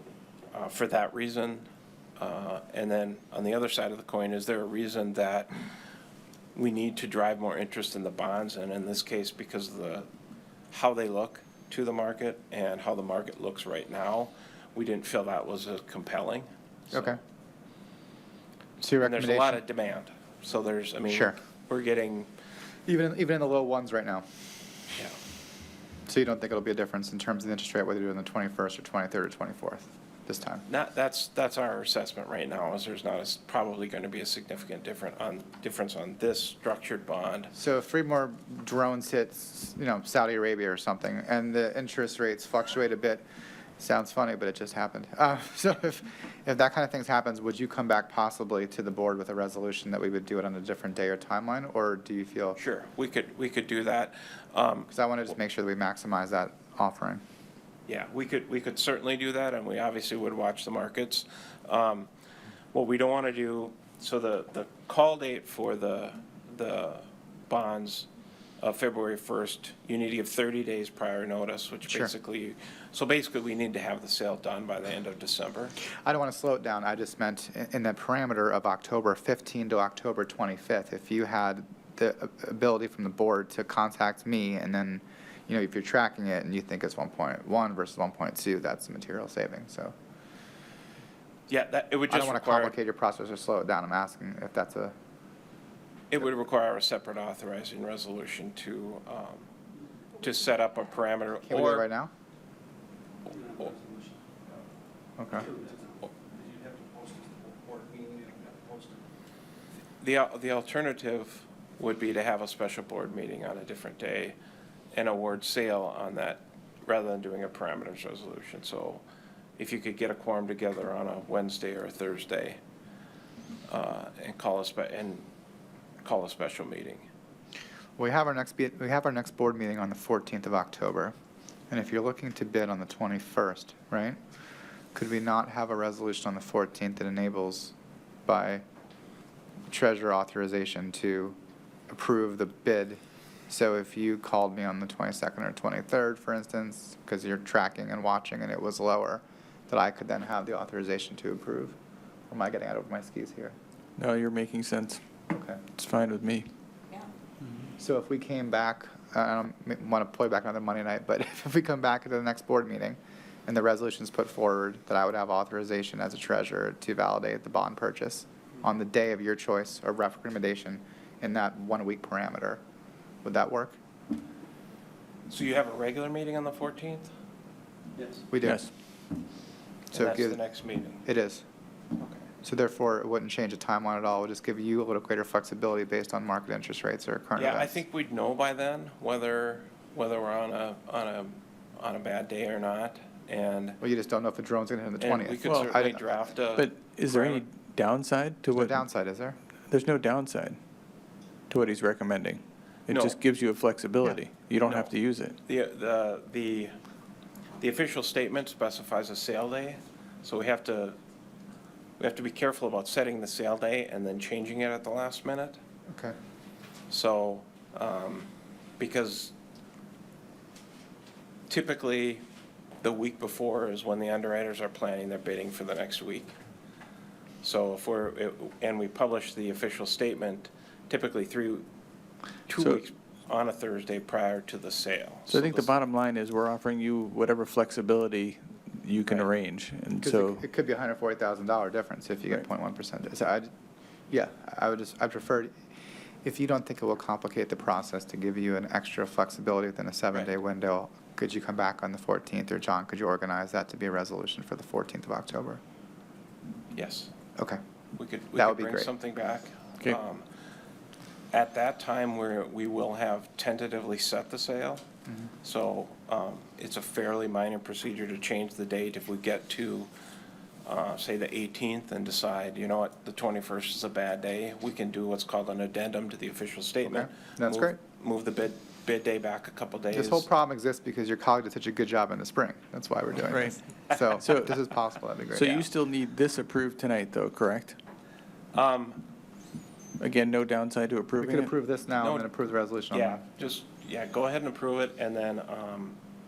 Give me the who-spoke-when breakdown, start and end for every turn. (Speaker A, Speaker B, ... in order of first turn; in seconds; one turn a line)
Speaker A: 0.5-1.6
Speaker A: 2.2-5.5
Speaker A: 6.5-10.1
Speaker A: 10.7-17.2
Speaker B: 16.9-17.2
Speaker B: 18.8-19.6
Speaker A: 19.0-22.3
Speaker B: 21.1-21.4
Speaker B: 22.9-24.2
Speaker B: 26.1-30.6
Speaker A: 30.7-37.5
Speaker B: 37.5-43.2
Speaker B: 43.8-52.6
Speaker A: 52.6-54.9
Speaker B: 54.9-57.2
Speaker A: 57.9-62.1
Speaker A: 62.7-68.1
Speaker A: 68.6-75.8
Speaker B: 76.0-89.9
Speaker A: 91.5-92.7
Speaker B: 92.1-94.9
Speaker A: 96.1-99.5
Speaker A: 100.2-101.9
Speaker B: 101.5-102.1
Speaker C: 103.2-104.2
Speaker B: 105.2-105.5
Speaker C: 105.3-109.0
Speaker A: 110.0-114.3
Speaker A: 114.9-119.0
Speaker A: 119.6-122.6
Speaker A: 123.7-125.2
Speaker A: 126.0-127.0
Speaker B: 128.0-131.1
Speaker B: 131.7-134.2
Speaker B: 134.9-137.7
Speaker B: 138.3-138.6
Speaker B: 139.7-141.3
Speaker B: 141.9-143.0
Speaker B: 143.5-151.8
Speaker B: 152.3-153.5
Speaker D: 154.0-155.0
Speaker B: 155.3-155.7
Speaker D: 155.8-156.5
Speaker B: 157.8-172.6
Speaker B: 173.2-173.8
Speaker A: 175.3-177.1
Speaker B: 178.3-178.7
Speaker D: 178.4-178.7
Speaker B: 179.9-180.4
Speaker A: 179.9-181.0
Speaker B: 181.0-181.4
Speaker B: 182.4-187.7
Speaker A: 187.3-193.8
Speaker B: 193.8-196.0
Speaker A: 195.0-197.4
Speaker D: 196.6-198.8
Speaker B: 198.5-199.3
Speaker D: 199.7-200.6
Speaker D: 201.5-205.4
Speaker A: 202.9-203.2
Speaker A: 204.6-204.9
Speaker A: 205.4-206.8
Speaker A: 207.6-211.0
Speaker A: 212.0-215.6
Speaker A: 216.9-219.3
Speaker A: 221.5-222.2
Speaker A: 222.8-226.3
Speaker A: 227.4-231.7
Speaker A: 232.5-235.7
Speaker D: 235.3-240.4
Speaker B: 240.0-243.5
Speaker B: 244.1-245.6
Speaker B: 246.2-255.6
Speaker A: 256.7-257.1
Speaker A: 258.0-260.2
Speaker B: 258.4-258.9
Speaker A: 261.3-264.8
Speaker A: 265.4-269.9
Speaker A: 270.6-280.3
Speaker B: 276.8-277.8
Speaker B: 279.9-285.6
Speaker D: 283.3-283.6
Speaker D: 284.2-284.5
Speaker D: 285.3-287.8
Speaker A: 285.4-285.6
Speaker A: 288.5-289.0
Speaker D: 290.0-291.5
Speaker B: 291.2-293.2
Speaker A: 292.0-292.3
Speaker A: 292.9-296.0